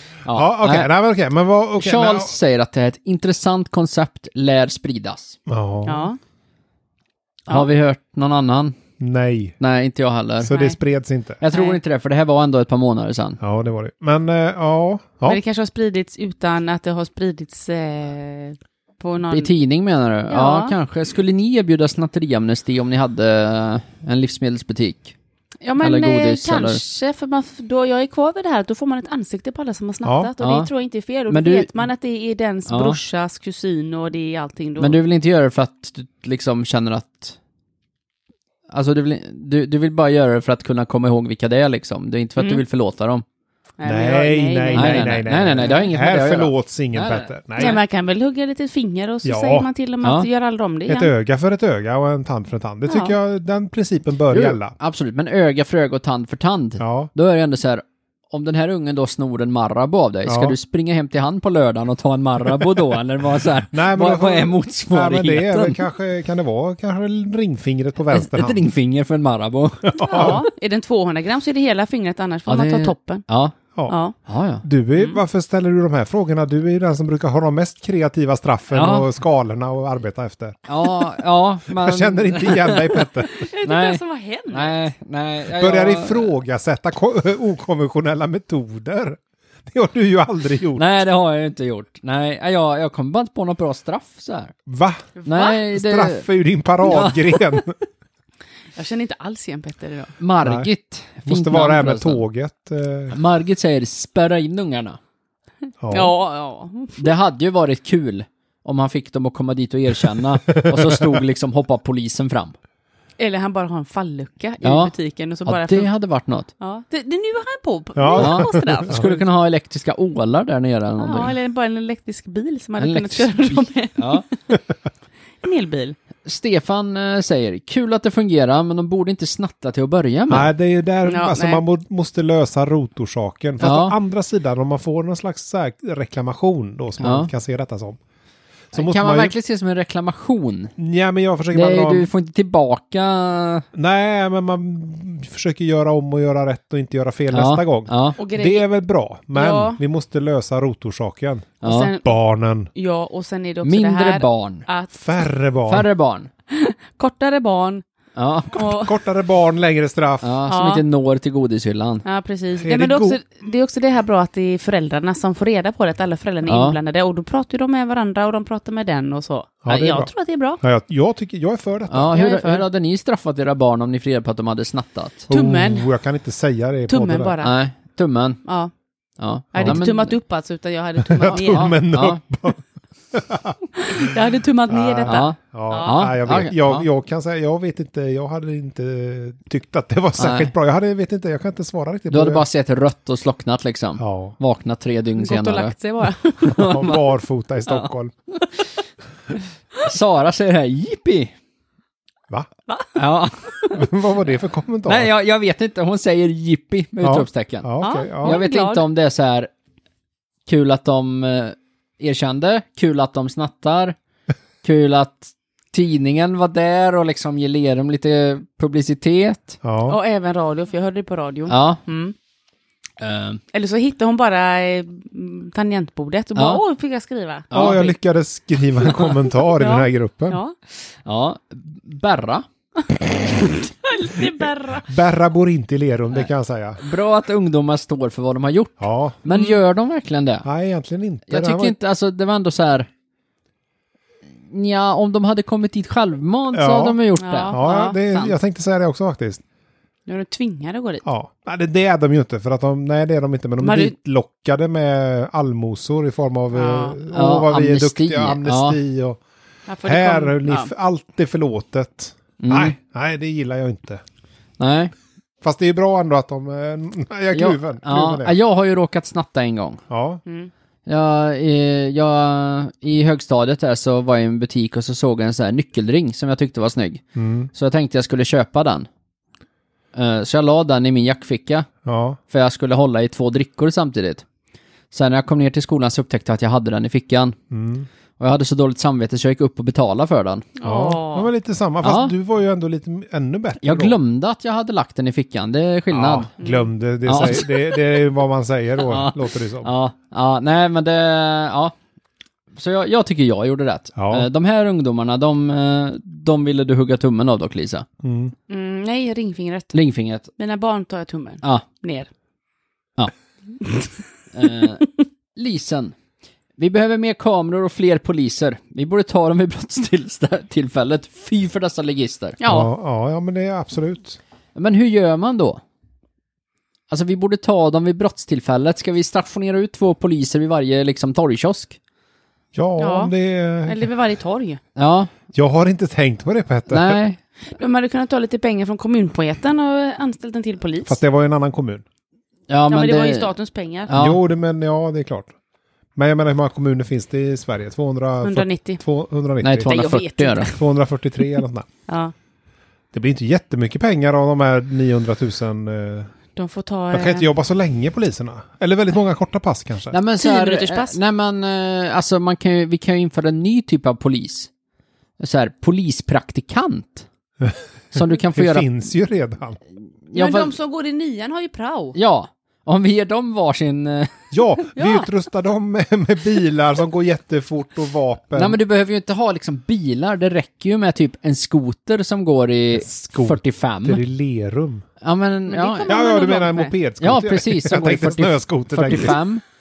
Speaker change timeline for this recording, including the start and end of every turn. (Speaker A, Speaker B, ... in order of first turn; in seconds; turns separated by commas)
Speaker A: 0.2-0.9, Speaker B: 0.3-2.4, Speaker A: 1.8-5.4, Speaker B: 5.5-6.1, Speaker C: 5.8-6.2, Speaker A: 7.5-8.8, Speaker B: 9.0-9.6, Speaker A: 9.6-10.5, Speaker B: 10.4-11.4, Speaker C: 10.5-10.8, Speaker A: 11.4-13.4, Speaker C: 11.5-11.8, Speaker B: 13.4-15.4, Speaker C: 15.2-19.5, Speaker A: 19.3-25.1, Speaker C: 20.3-20.7, Speaker C: 25.6-35.0, Speaker A: 25.8-26.8, Speaker B: 30.0-30.3, Speaker A: 30.4-30.7, Speaker A: 31.3-31.8, Speaker A: 32.7-33.0, Speaker A: 34.8-37.4, Speaker A: 38.7-43.2, Speaker C: 42.4-42.6, Speaker C: 43.8-45.8, Speaker B: 43.8-47.8, Speaker A: 44.7-47.8, Speaker C: 47.6-51.1, Speaker B: 49.2-49.7, Speaker B: 50.9-54.7, Speaker C: 52.9-53.1, Speaker A: 54.3-65.8, Speaker B: 56.8-57.1, Speaker B: 60.2-60.6, Speaker B: 63.7-68.6, Speaker A: 68.1-70.4, Speaker B: 69.9-70.5, Speaker C: 70.0-73.2, Speaker A: 72.5-73.5, Speaker C: 73.9-74.1, Speaker A: 74.2-74.6, Speaker B: 74.6-80.6, Speaker C: 74.9-75.2, Speaker A: 78.7-79.1, Speaker A: 80.7-83.1, Speaker B: 81.7-83.3, Speaker C: 83.2-84.9, Speaker A: 83.6-86.3, Speaker B: 85.5-90.8, Speaker A: 90.7-94.5, Speaker B: 94.7-95.1, Speaker C: 95.2-95.6, Speaker A: 95.2-96.2, Speaker B: 95.7-97.7, Speaker A: 96.8-97.7, Speaker C: 98.7-100.1, Speaker A: 100.2-102.2, Speaker B: 100.4-100.7, Speaker B: 101.2-103.2, Speaker A: 103.1-105.0, Speaker B: 105.8-106.1, Speaker C: 105.9-107.1, Speaker A: 107.0-112.5, Speaker B: 110.5-111.2, Speaker C: 113.2-115.9, Speaker A: 114.6-114.9, Speaker A: 115.4-116.5, Speaker C: 116.6-119.2, Speaker B: 118.0-119.2, Speaker A: 118.2-121.3, Speaker C: 121.0-124.4, Speaker A: 122.8-124.2, Speaker C: 125.4-126.0, Speaker A: 126.2-130.5, Speaker B: 130.3-138.0, Speaker C: 131.0-131.6, Speaker A: 133.6-133.9, Speaker A: 137.0-137.3, Speaker B: 138.7-139.3, Speaker A: 138.7-140.7, Speaker B: 140.8-142.1, Speaker A: 141.5-143.7, Speaker B: 143.7-152.7, Speaker A: 147.3-148.2, Speaker C: 148.2-148.7, Speaker C: 149.3-149.8, Speaker A: 151.6-151.9, Speaker C: 151.6-152.1, Speaker C: 152.7-154.9, Speaker A: 153.6-154.7, Speaker B: 154.9-155.9, Speaker A: 155.7-156.3, Speaker C: 156.5-157.8, Speaker A: 158.1-158.6, Speaker C: 158.5-158.9, Speaker B: 158.6-160.3, Speaker A: 160.2-162.0, Speaker C: 160.5-160.8, Speaker C: 162.0-170.6, Speaker B: 162.6-163.2, Speaker A: 166.4-166.8, Speaker B: 169.6-172.2, Speaker A: 171.9-175.3, Speaker C: 172.1-172.6, Speaker B: 175.3-177.3, Speaker C: 175.3-175.9, Speaker C: 176.9-177.5, Speaker A: 177.4-178.4, Speaker C: 178.4-178.7, Speaker A: 179.2-180.1, Speaker C: 179.5-181.8, Speaker B: 181.0-184.1, Speaker A: 181.2-182.2, Speaker C: 183.8-186.0, Speaker B: 184.7-192.4, Speaker A: 185.0-186.8, Speaker A: 190.2-190.5, Speaker A: 192.1-195.7, Speaker B: 194.0-194.3, Speaker C: 195.2-196.8, Speaker B: 196.5-198.1, Speaker A: 196.6-197.0, Speaker A: 199.8-201.3, Speaker C: 202.7-203.0, Speaker A: 202.9-203.7, Speaker B: 203.7-205.1, Speaker A: 204.8-209.5, Speaker B: 207.0-208.4, Speaker C: 207.8-208.8, Speaker A: 210.5-213.9, Speaker A: 214.6-219.6, Speaker B: 219.6-220.0, Speaker C: 219.8-222.1, Speaker A: 221.5-221.8, Speaker A: 223.0-223.4, Speaker C: 223.5-227.9, Speaker A: 226.3-226.6, Speaker A: 227.5-227.9, Speaker B: 227.5-230.4, Speaker C: 228.9-230.5, Speaker A: 231.0-232.4, Speaker C: 233.4-234.9, Speaker B: 234.8-236.8, Speaker A: 236.8-240.4, Speaker B: 238.8-239.2, Speaker C: 239.3-239.6, Speaker B: 240.4-241.8, Speaker A: 241.3-242.9, Speaker A: 244.5-247.6, Speaker B: 246.5-247.0, Speaker C: 247.2-248.4, Speaker B: 247.5-249.4, Speaker C: 250.1-251.0, Speaker B: 251.0-259.2, Speaker C: 253.6-253.9, Speaker C: 256.5-257.0, Speaker A: 257.1-258.8, Speaker C: 259.7-260.7, Speaker B: 259.8-264.0, Speaker A: 262.4-262.7, Speaker A: 264.6-264.9, Speaker B: 265.4-268.4, Speaker A: 267.3-269.8, Speaker B: 269.9-270.2, Speaker A: 270.9-277.0, Speaker B: 277.1-277.5, Speaker A: 277.5-278.9, Speaker A: 279.9-281.7, Speaker B: 281.8-282.2, Speaker A: 282.3-284.2, Speaker A: 284.9-287.4, Speaker B: 287.5-287.9, Speaker A: 288.2-290.5, Speaker C: 290.6-291.3, Speaker B: 290.6-294.0, Speaker A: 291.8-292.1, Speaker A: 293.6-296.3, Speaker B: 295.9-299.7, Speaker C: 296.4-296.7, Speaker A: 297.1-297.8, Speaker A: 298.8-301.7, Speaker A: 302.6-307.9, Speaker B: 304.0-304.3, Speaker B: 308.0-308.3, Speaker C: 308.5-309.8, Speaker A: 309.7-310.3, Speaker C: 310.4-312.1, Speaker C: 313.6-313.9, Speaker A: 314.3-315.9, Speaker A: 316.6-322.4, Speaker C: 322.4-322.7, Speaker B: 322.4-324.2, Speaker A: 324.5-325.6, Speaker A: 326.9-331.8, Speaker B: 332.5-333.9, Speaker C: 332.8-333.1, Speaker C: 333.6-334.6, Speaker A: 334.8-335.1, Speaker B: 335.3-337.0, Speaker A: 336.7-337.2, Speaker C: 337.5-341.0, Speaker B: 340.8-341.8, Speaker A: 342.5-343.3, Speaker C: 342.7-343.9, Speaker A: 343.9-344.2, Speaker B: 343.9-345.3, Speaker B: 345.9-349.7, Speaker C: 348.2-348.8, Speaker A: 349.4-350.5, Speaker C: 349.6-350.6, Speaker B: 350.5-351.6, Speaker C: 351.9-352.1, Speaker B: 352.9-356.1, Speaker C: 356.4-357.3, Speaker B: 356.9-359.9, Speaker A: 359.9-364.5, Speaker C: 360.2-361.0, Speaker A: 365.2-367.1, Speaker B: 367.4-369.6, Speaker A: 367.9-368.7, Speaker A: 370.1-370.5, Speaker C: 370.1-371.9, Speaker A: 371.9-374.3, Speaker B: 374.3-378.6, Speaker C: 374.7-375.1, Speaker A: 378.3-384.0, Speaker B: 382.7-384.8, Speaker A: 385.0-385.9, Speaker C: 385.5-386.7, Speaker B: 385.9-389.2, Speaker A: 387.0-389.4